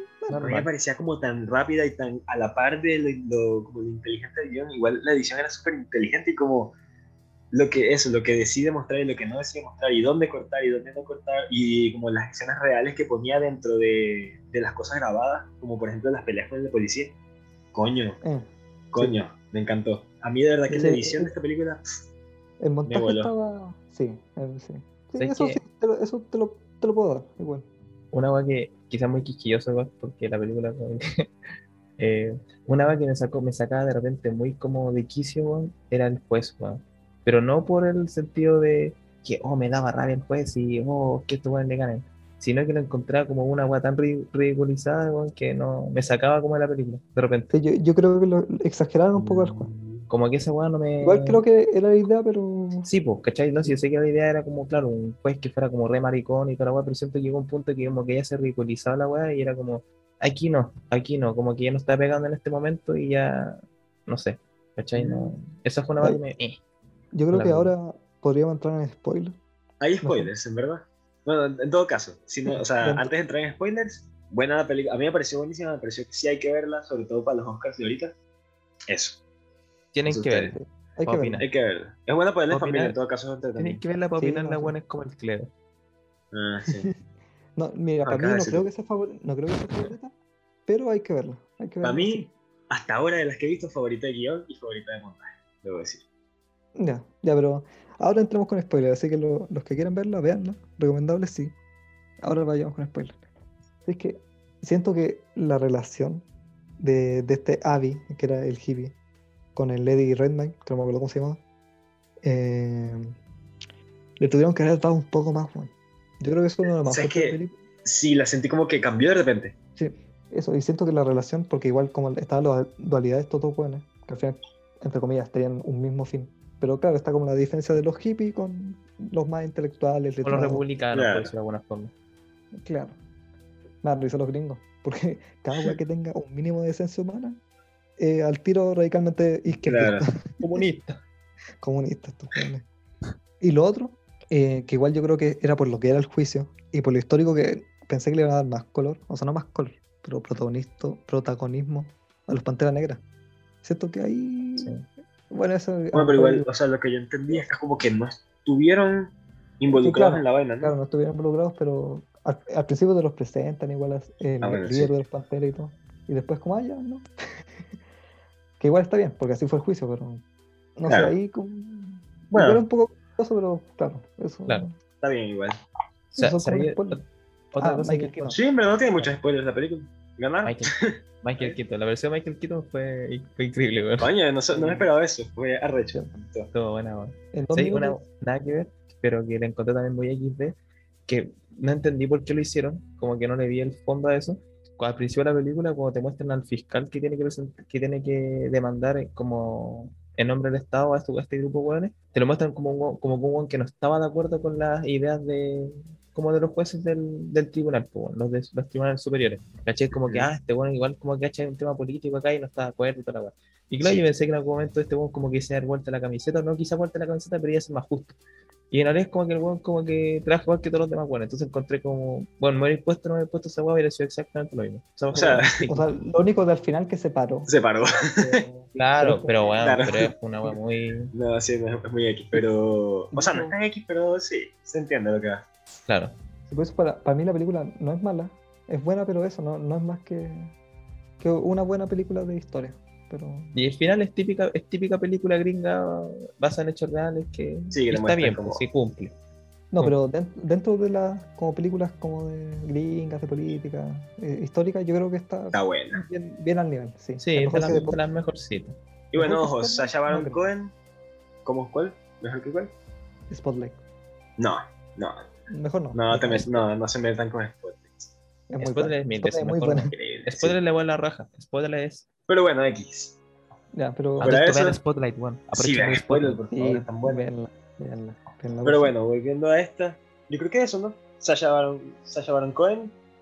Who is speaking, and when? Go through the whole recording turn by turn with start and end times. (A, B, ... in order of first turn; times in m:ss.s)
0:00.2-0:00.5 A
0:00.3-0:00.7 B
0:00.4-0:06.7 C
0:07.5-0:17.1 C
0:17.7-0:18.2 C
0:18.2-0:19.2 A
0:18.9-0:21.8 C
0:20.7-0:21.3 A
0:22.6-0:27.7 A
0:22.8-0:23.3 C
0:25.2-0:25.6 B
0:28.1-0:31.3 B
0:32.0-0:47.5 B
0:47.5-0:49.7 A
0:49.1-0:50.1 C
0:50.1-0:51.4 B
0:51.0-0:52.9 A
0:52.8-1:06.6 B
1:04.9-1:06.2 A
1:07.1-1:09.4 A
1:07.3-1:07.7 B
1:09.8-1:18.1 C
1:10.0-1:10.3 A
1:12.4-1:13.1 A
1:18.9-1:19.2 C
1:19.9-1:21.5 B
1:20.0-1:20.5 C
1:20.5-1:21.4 A
1:21.4-1:23.8 C
1:22.5-1:23.0 B
1:23.5-1:25.5 B
1:24.2-1:24.8 A
1:26.3-1:26.9 C
1:27.6-1:30.1 A
1:28.0-1:28.6 C
1:30.7-1:32.3 A
1:31.8-1:36.0 C
1:36.8-1:41.5 A
1:42.2-1:43.2 A
1:43.8-1:46.2 A
1:46.8-1:49.0 A
1:49.5-1:51.4 A
1:52.2-1:53.2 A
1:54.2-1:57.6 A
1:56.6-1:59.5 C
1:59.8-2:10.6 A
2:10.2-2:11.9 B
2:10.9-2:11.3 C
2:12.5-2:13.0 A
2:13.8-2:17.4 A
2:18.0-2:20.6 A
2:19.6-2:20.0 C
2:20.4-2:21.0 B
2:21.6-2:22.6 A
2:23.4-2:33.0 A
2:33.6-2:34.7 A
2:34.6-2:34.8 B
2:35.3-2:36.5 A
2:35.9-2:40.8 C
2:39.7-2:47.1 A
2:44.4-2:45.0 C
2:48.6-2:50.2 A
2:50.8-2:54.8 A
2:50.9-2:51.2 C
2:52.3-2:52.6 C
2:55.0-2:55.6 C
2:56.1-2:58.3 B
2:56.2-2:57.0 A
2:57.6-2:58.4 A
2:58.3-3:00.7 C
3:00.4-3:00.7 B
3:01.2-3:04.1 B
3:04.0-3:06.5 C
3:04.5-3:04.9 A
3:06.5-3:38.2 B
3:07.3-3:08.0 A
3:30.0-3:30.3 C
3:38.7-3:45.9 B
3:45.1-3:45.6 C
3:45.7-3:50.0 A
3:47.5-3:47.9 C
3:48.7-3:51.1 B
3:49.6-3:50.1 C
3:51.1-3:55.4 C
3:53.1-3:53.5 A
3:55.9-3:56.2 B
3:56.5-4:00.5 A
4:01.2-4:03.5 A
4:03.5-4:09.1 B
4:07.7-4:08.6 C
4:09.7-4:18.0 A
4:15.5-4:16.0 C
4:17.2-4:18.8 B
4:17.6-4:17.9 C
4:19.1-4:20.7 C
4:19.2-4:20.5 A
4:21.4-4:22.7 C
4:23.3-4:23.8 A
4:24.4-4:25.3 C
4:25.5-4:26.2 A
4:25.9-4:28.1 C
4:26.1-4:26.6 B
4:28.5-4:29.9 A
4:28.6-4:32.0 B
4:29.9-4:30.6 C
4:32.3-4:33.2 C
4:33.7-4:34.4 A
4:34.2-4:36.4 B
4:34.2-4:34.8 C
4:35.5-4:37.3 C
4:36.5-4:38.9 A
4:38.6-4:42.9 C